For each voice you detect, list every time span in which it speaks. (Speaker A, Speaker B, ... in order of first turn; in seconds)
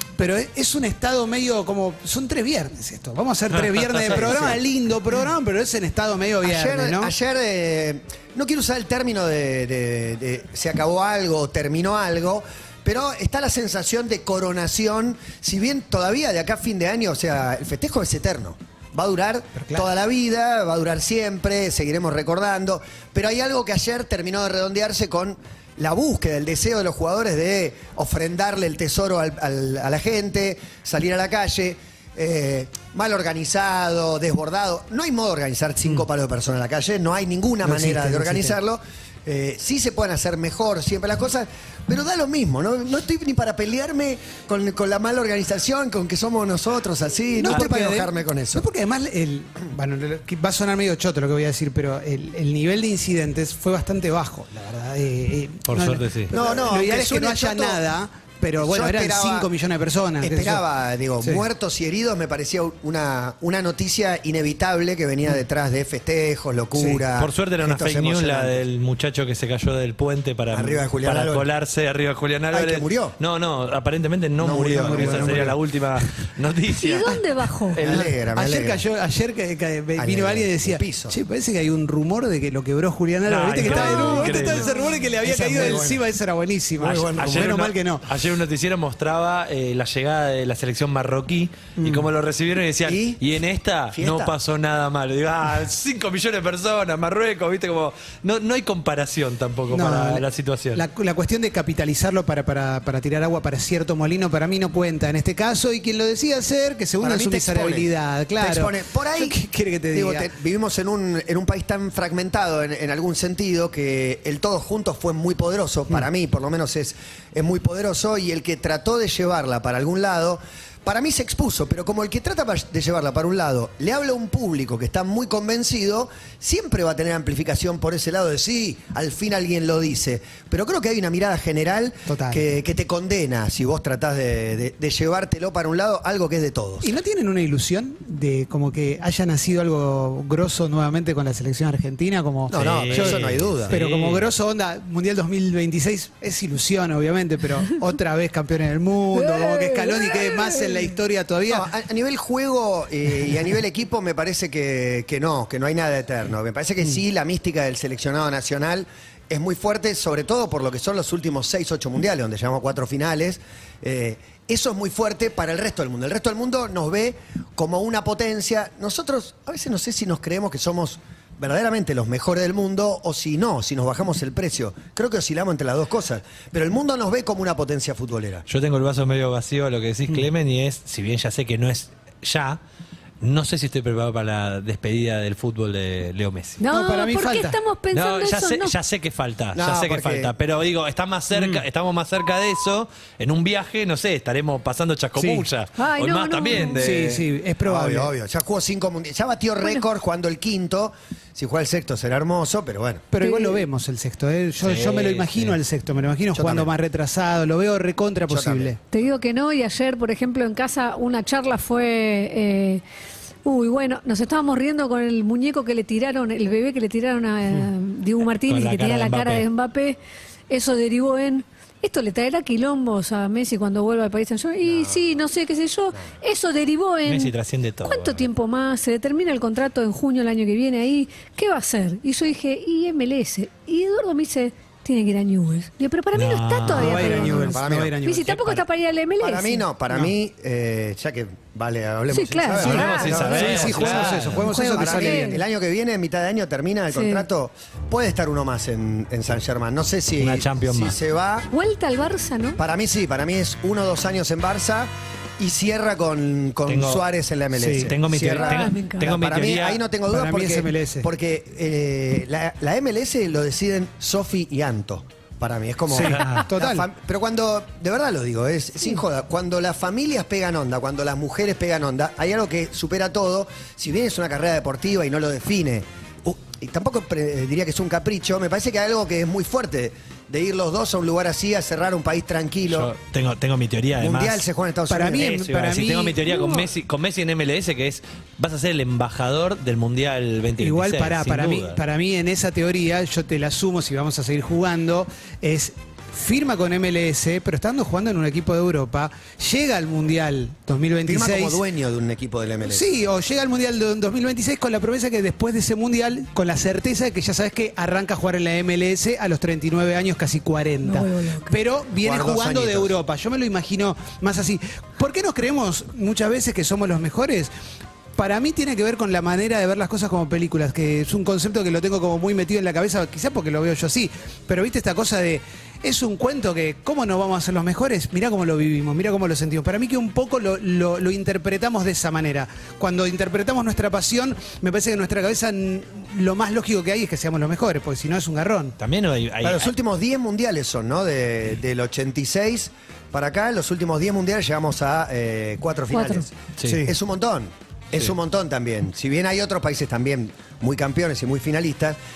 Speaker A: 0.2-7.1, 19.6-19.9, 37.6-38.6, 47.3-60.6, 66.8-67.0, 74.7-75.6, 77.9-88.0, 91.8-92.1, 99.7-110.3, 132.1-132.5, 136.8-151.7, 186.7-187.6, 191.3-191.6, 195.2-195.5, 196.7-198.1, 203.1-208.8, 236.7-238.6, 242.6-245.4, 257.6-257.9, 260.1-261.1, 265.9-266.9, 284.9-286.2, 290.6-301.6, 302.7-317.5, 318.2-338.8, 346.6-346.9
Speaker B: 3.8-4.2, 55.7-56.3, 67.2-78.1, 83.3-84.7, 87.2-100.8, 142.5-144.3, 178.5-182.6, 183.2-186.6, 187.9-197.2, 204.6-205.6, 218.5-219.5, 227.1-228.3, 236.1-237.3, 242.6-244.4, 250.2-251.0, 256.7-257.0, 257.8-259.8, 266.0-266.3, 282.7-284.4, 285.2-291.8, 338.8-339.7
Speaker C: 4.0-4.6, 6.4-48.7, 56.3-57.8, 58.6-59.5, 60.2-68.7, 70.5-71.5, 72.5-73.2, 74.4-75.5, 77.8-78.8, 80.0-81.2, 85.2-86.0, 86.8-87.7, 92.8-93.2, 93.9-94.3, 107.0-109.4, 109.9-136.9, 142.5-143.8, 151.5-178.4, 189.6-190.3, 197.7-203.1, 206.3-206.7, 208.3-208.8, 224.6-225.1, 237.2-238.0, 239.2-251.5, 252.6-282.9, 284.0-285.4, 301.1-302.9, 312.0-313.0, 339.4-352.0
Speaker D: 76.8-77.8, 83.6-85.0, 149.2-150.9, 186.6-188.7, 195.8-196.8, 203.2-203.6, 208.9-212.8, 213.4-220.0, 220.5-227.3, 227.8-239.6, 242.1-243.2, 244.5-245.4, 246.9-247.3, 251.5-252.6, 258.4-259.0, 286.3-286.7, 310.8-311.6, 345.9-346.3